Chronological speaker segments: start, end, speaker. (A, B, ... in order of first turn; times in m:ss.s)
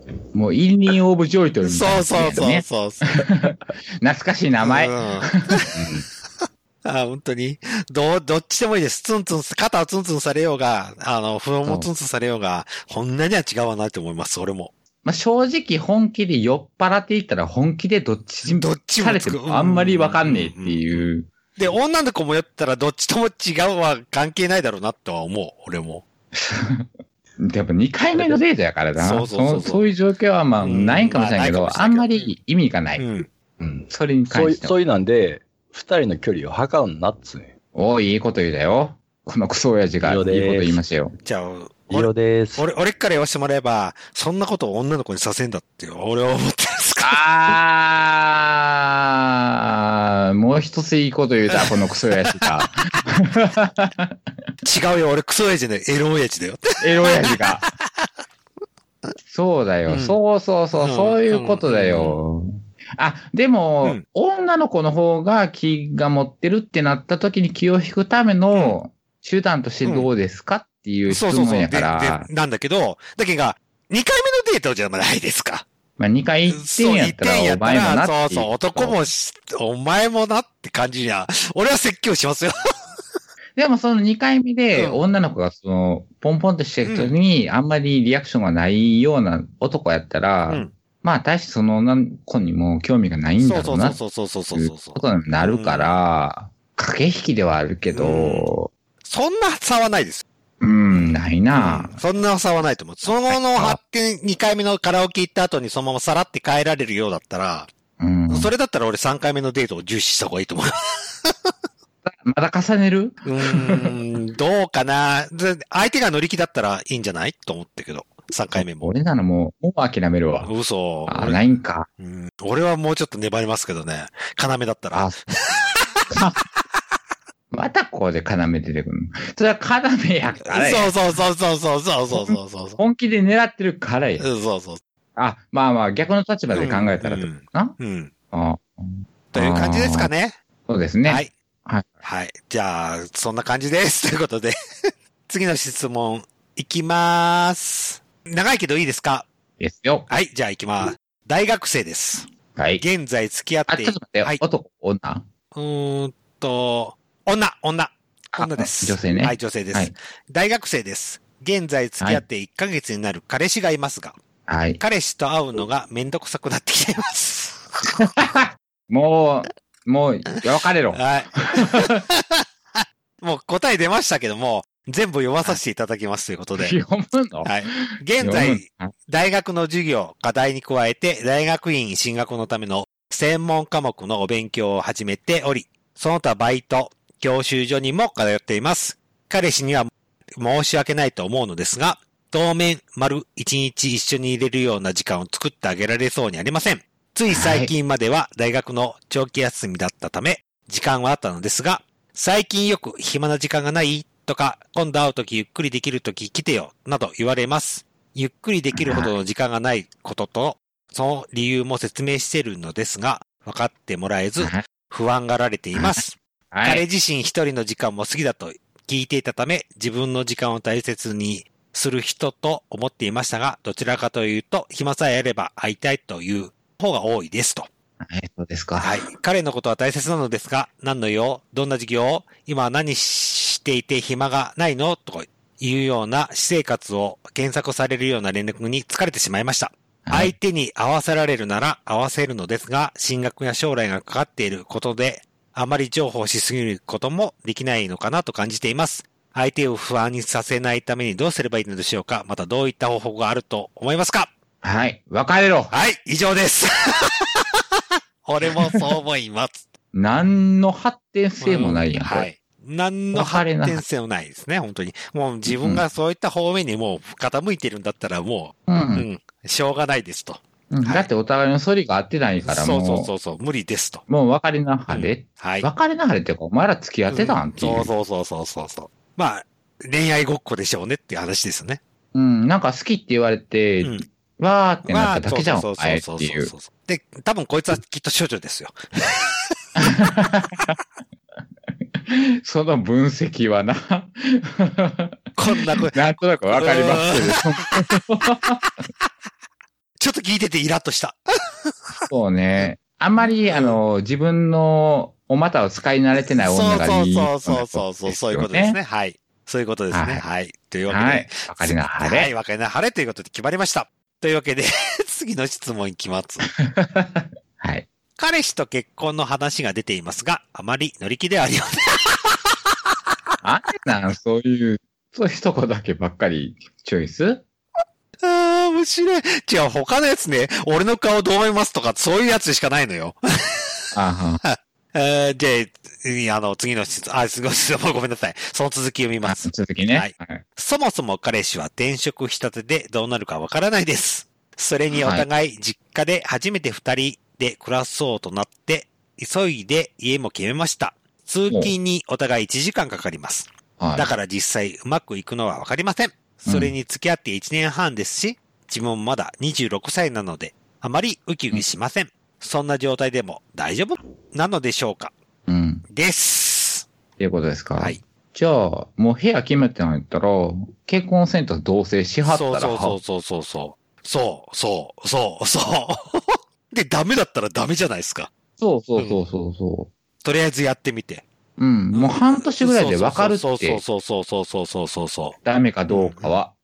0:00.4-0:02.7 A
0:01.6-0:03.0 B
0:03.2-0:05.7 A
0:04.6-0:05.7 B
0:05.7-0:06.0 C
0:06.4-0:14.7 B
0:11.6-0:11.9 A
0:15.0-0:21.3 A
0:18.5-0:26.0 B
0:26.3-0:33.1 A
0:28.1-0:28.4 C
0:29.0-0:29.9 B
0:30.6-0:32.3 B
0:33.0-0:33.3 B
0:33.6-0:37.5 C
0:33.9-0:34.8 A
0:37.8-0:41.1 A
0:40.0-0:40.8 C
0:41.2-0:47.2 B
0:41.9-0:42.7 C
0:47.0-0:54.3 A
0:51.5-0:52.5 B
0:54.6-0:58.1 B
0:56.8-0:57.6 A
0:59.3-1:12.3 A
0:59.9-1:00.2 B
1:00.8-1:02.2 B
1:08.5-1:08.8 B
1:09.8-1:10.1 B
1:11.1-1:15.7 B
1:16.0-1:19.0 A
1:16.5-1:22.6 B
1:23.6-1:34.0 A
1:24.7-1:25.0 B
1:26.8-1:27.2 B
1:30.5-1:30.7 B
1:33.4-1:36.0 B
1:34.5-1:38.7 A
1:37.9-1:40.2 B
1:40.6-1:42.0 A
1:40.9-1:47.7 B
1:43.2-1:43.8 A
1:48.0-1:48.5 A
1:48.3-1:50.7 B
1:51.2-1:51.5 B
1:52.0-1:53.9 A
1:53.2-1:58.9 B
1:58.5-2:00.5 A
2:00.4-2:01.4 B
2:01.1-2:01.9 A
2:02.0-2:06.2 B
2:04.9-2:05.2 A
2:06.1-2:06.4 A
2:07.5-2:11.0 A
2:10.4-2:12.8 B
2:12.1-2:14.3 A
2:14.2-2:14.8 B
2:15.2-2:17.8 A
2:16.5-2:18.1 B
2:18.3-2:20.1 A
2:19.3-2:20.4 B
2:20.7-2:22.0 A
2:21.0-2:21.3 B
2:22.0-2:24.6 B
2:25.3-2:29.3 B
2:29.6-2:30.1 A
2:30.1-2:32.3 B
2:32.5-2:32.8 A
2:32.8-2:34.4 B
2:33.7-2:35.2 A
2:35.6-2:44.2 B
2:38.4-2:39.9 A
2:44.5-2:44.8 A
2:44.8-2:47.7 B
2:48.0-2:52.0 A
2:50.9-2:56.8 B
2:56.6-2:58.9 A
2:57.4-3:47.7 B
3:17.3-3:17.7 A
3:28.7-3:29.1 A
3:35.8-3:36.8 A
3:48.0-3:49.0 A
3:48.8-4:14.3 B
4:00.0-4:00.4 A
4:14.6-4:15.7 A
4:15.7-4:17.4 B
4:18.2-4:19.7 B
4:19.9-4:22.3 A
4:21.4-4:31.1 B
4:23.1-4:23.8 A
4:25.5-4:25.8 A
4:28.7-4:29.1 A
4:30.7-4:33.1 A
4:32.4-4:34.0 B
4:34.1-4:37.9 A
4:34.9-4:35.7 B
4:37.1-4:41.8 B
4:42.1-4:46.5 A
4:43.8-4:44.1 B
4:44.9-4:49.4 B
4:49.8-4:50.8 A
4:51.9-4:55.3 A
4:55.4-4:56.0 B
4:55.9-4:58.6 A
4:56.5-4:57.9 B
4:58.6-4:59.1 B
5:00.0-5:03.8 B
5:02.1-5:08.8 A
5:06.4-5:16.5 B
5:09.9-5:10.2 A
5:10.9-5:12.3 A
5:16.6-5:17.9 A
5:18.2-5:22.6 B
5:23.4-5:27.5 A
5:28.2-6:05.1 B
5:34.0-5:34.4 A
5:39.2-5:40.4 A
5:44.9-5:45.3 A
5:51.5-5:51.8 A
5:53.8-5:54.1 A
5:56.5-5:56.7 A
6:05.5-6:05.8 A
6:05.9-6:06.9 B
6:07.2-6:13.0 A
6:12.3-6:18.3 B
6:18.6-6:19.9 A
6:19.0-6:19.2 B
6:20.2-6:21.2 B
6:21.6-6:23.8 A
6:21.9-6:25.4 B
6:25.4-6:26.5 A
6:25.9-6:26.4 B